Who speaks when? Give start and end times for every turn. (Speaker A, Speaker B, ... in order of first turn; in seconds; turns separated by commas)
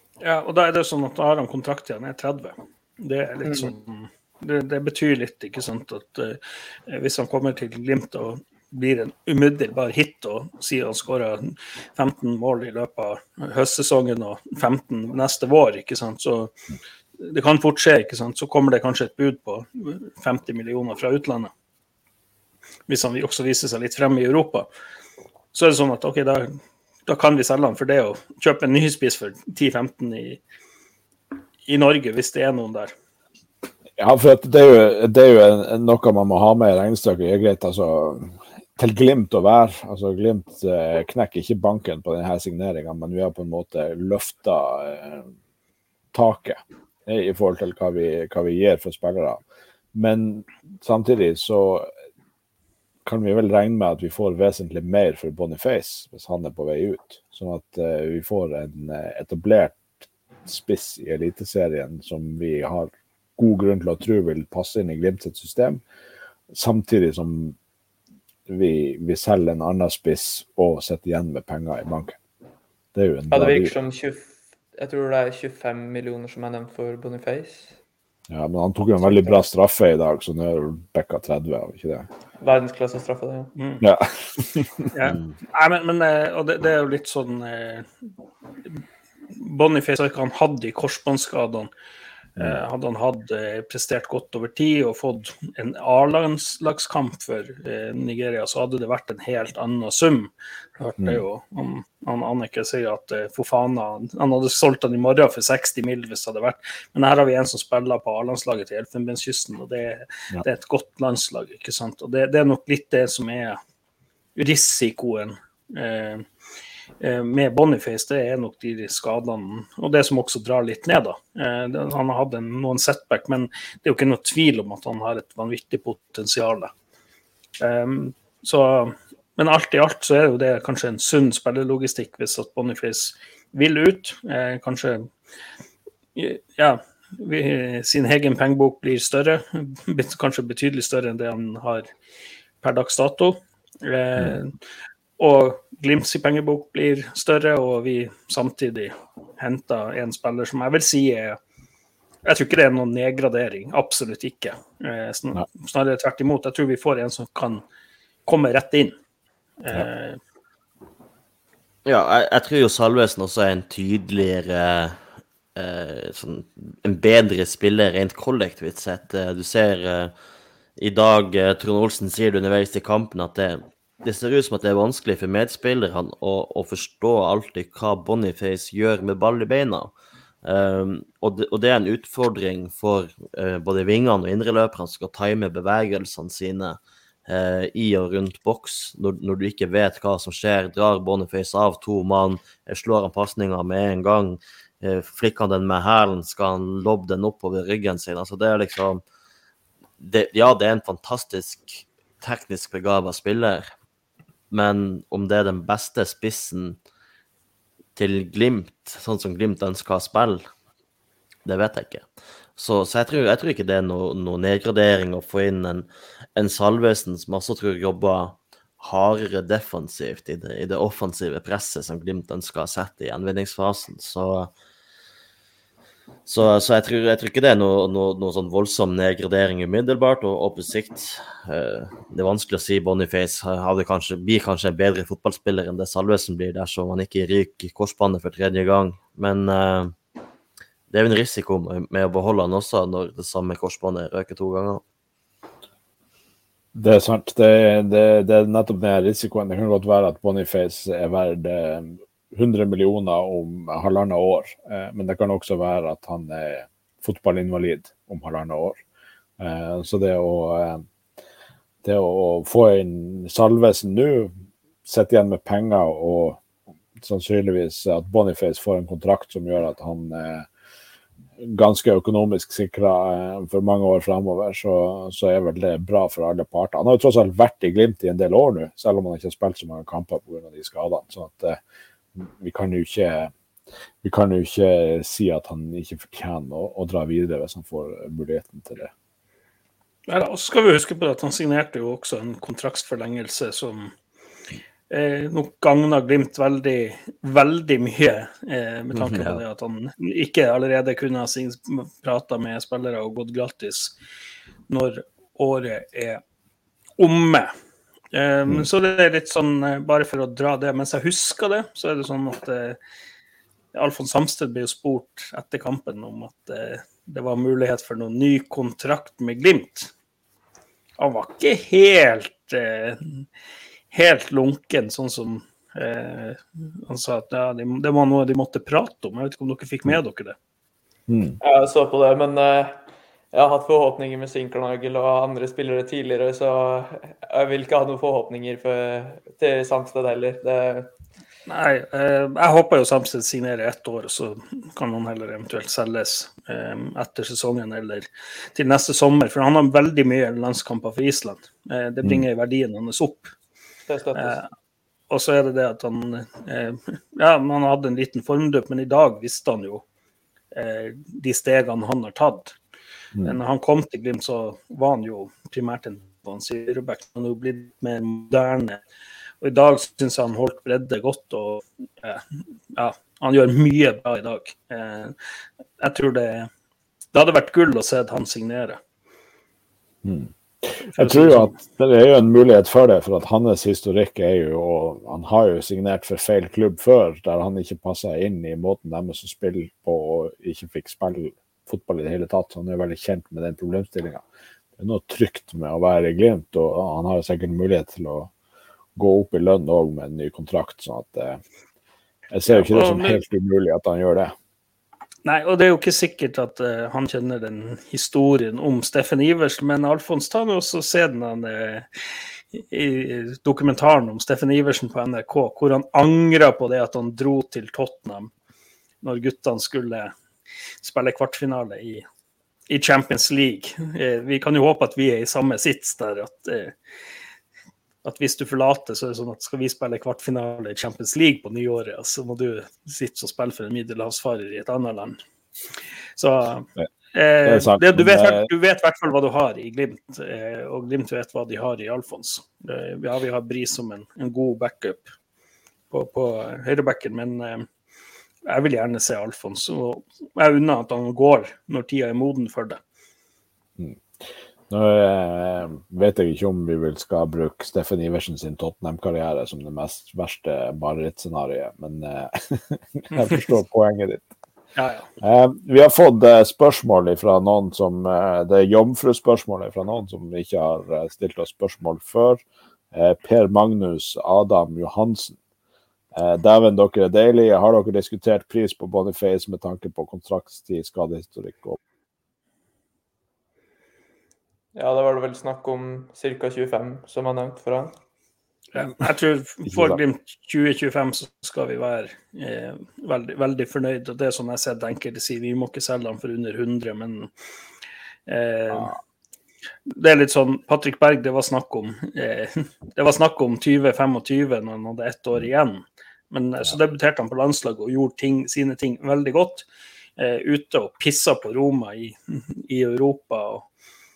Speaker A: 0.2-16.6, Speaker B: 3.5-3.7, Speaker A: 17.2-21.5, Speaker A: 22.9-24.7, Speaker A: 25.5-30.4, Speaker A: 31.7-32.9, Speaker C: 34.0-45.3, Speaker C: 46.1-49.4, Speaker C: 49.9-51.9, Speaker C: 53.0-65.8, Speaker C: 66.5-67.6, Speaker C: 68.5-72.2, Speaker C: 72.9-73.8, Speaker B: 73.3-77.8, Speaker C: 78.3-82.1, Speaker B: 82.4-83.5, Speaker A: 83.6-83.8, Speaker C: 83.8-84.9, Speaker A: 84.9-87.9, Speaker A: 89.3-91.7, Speaker A: 92.4-113.6, Speaker A: 114.4-116.3, Speaker A: 117.0-126.7, Speaker A: 127.6-135.1, Speaker A: 136.2-141.9, Speaker A: 142.6-144.6, Speaker A: 145.2-151.4, Speaker A: 152.2-157.6, Speaker A: 158.3-158.9, Speaker A: 159.6-160.2, Speaker D: 161.8-165.0, Speaker D: 165.6-170.1, Speaker D: 170.8-179.9, Speaker D: 180.4-199.0, Speaker D: 200.0-203.7, Speaker D: 204.5-206.8, Speaker D: 208.0-210.4, Speaker D: 211.5-224.5, Speaker D: 226.3-239.9, Speaker D: 240.9-244.8, Speaker C: 246.8-258.8, Speaker C: 259.4-260.9, Speaker C: 261.8-264.3, Speaker C: 264.9-266.4, Speaker C: 267.0-270.5, Speaker C: 271.4-281.6, Speaker C: 282.2-283.3, Speaker C: 284.0-288.9, Speaker A: 290.1-293.9, Speaker A: 294.9-303.9, Speaker D: 298.9-299.4, Speaker A: 304.7-306.2, Speaker A: 307.0-307.5, Speaker A: 308.1-312.8, Speaker A: 313.7-319.9, Speaker A: 321.0-323.3, Speaker A: 323.9-330.4, Speaker C: 331.1-331.4, Speaker B: 331.4-340.9, Speaker A: 341.5-353.3, Speaker B: 353.9-354.4, Speaker A: 354.1-354.5, Speaker A: 355.1-359.8, Speaker A: 360.5-362.6, Speaker A: 363.2-368.8, Speaker A: 369.4-375.2, Speaker A: 375.8-376.5, Speaker A: 377.1-378.8, Speaker C: 380.0-394.2, Speaker A: 380.9-381.5, Speaker C: 394.8-398.3, Speaker C: 399.0-401.4, Speaker C: 402.3-404.3, Speaker A: 402.5-403.2, Speaker A: 405.2-411.9, Speaker A: 412.5-418.3, Speaker A: 419.0-420.1, Speaker A: 420.8-422.1, Speaker A: 422.7-426.8, Speaker A: 428.0-435.2, Speaker A: 436.2-445.1, Speaker C: 437.4-438.5, Speaker A: 445.9-447.7, Speaker A: 448.4-452.8, Speaker C: 453.8-464.2, Speaker A: 464.8-465.1, Speaker C: 465.2-475.4, Speaker C: 476.1-481.8, Speaker B: 484.8-488.0, Speaker A: 488.8-497.3, Speaker C: 489.7-490.0, Speaker A: 498.3-498.9, Speaker C: 498.7-499.0, Speaker A: 499.9-509.6, Speaker A: 510.2-513.7